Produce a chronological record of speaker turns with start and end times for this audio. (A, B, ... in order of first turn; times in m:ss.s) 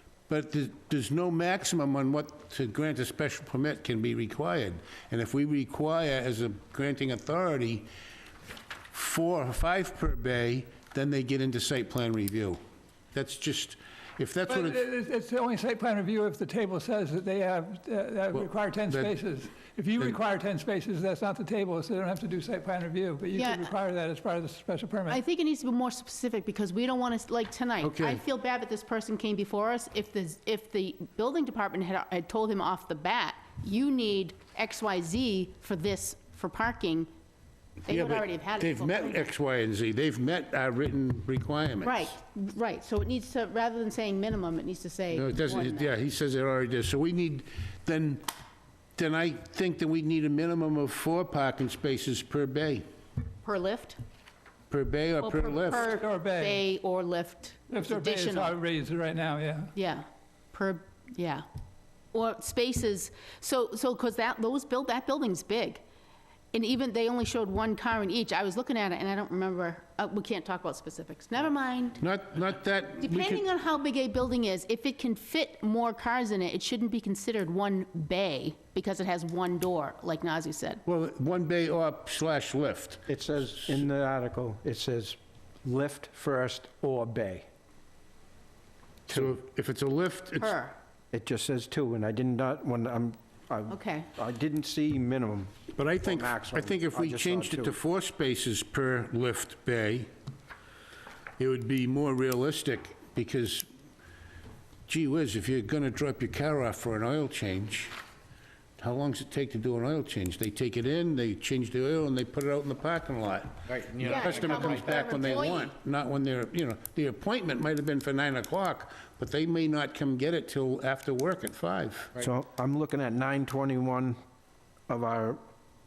0:00.3-0:07.9 A
0:08.9-0:12.6 A
0:13.1-0:14.8 A
0:14.5-0:25.2 B
0:18.3-0:19.1 A
0:23.3-0:23.7 C
0:25.1-0:37.1 C
0:27.8-0:28.2 A
0:37.9-0:39.3 C
0:37.9-0:42.1 A
0:41.8-0:45.9 C
0:45.1-0:48.2 A
0:49.0-0:52.8 A
0:53.4-0:54.0 C
0:54.7-0:55.9 A
0:55.2-0:58.6 C
0:55.7-0:56.6 B
0:57.7-0:59.7 B
0:59.8-1:01.5 C
1:02.1-1:05.8 C
1:06.5-1:12.0 C
1:12.0-1:13.4 A
1:13.0-1:20.8 C
1:20.9-1:23.8 A
1:23.1-1:27.5 D
1:29.1-1:29.4 D
1:29.1-1:30.6 A
1:30.4-1:30.8 C
1:31.1-1:37.8 D
1:33.7-1:34.1 C
1:35.8-1:40.1 A
1:41.4-1:43.7 A
1:44.9-1:47.9 A
1:48.8-2:02.2 A
1:54.0-1:55.7 C
2:02.2-2:04.2 D
2:04.9-2:05.4 D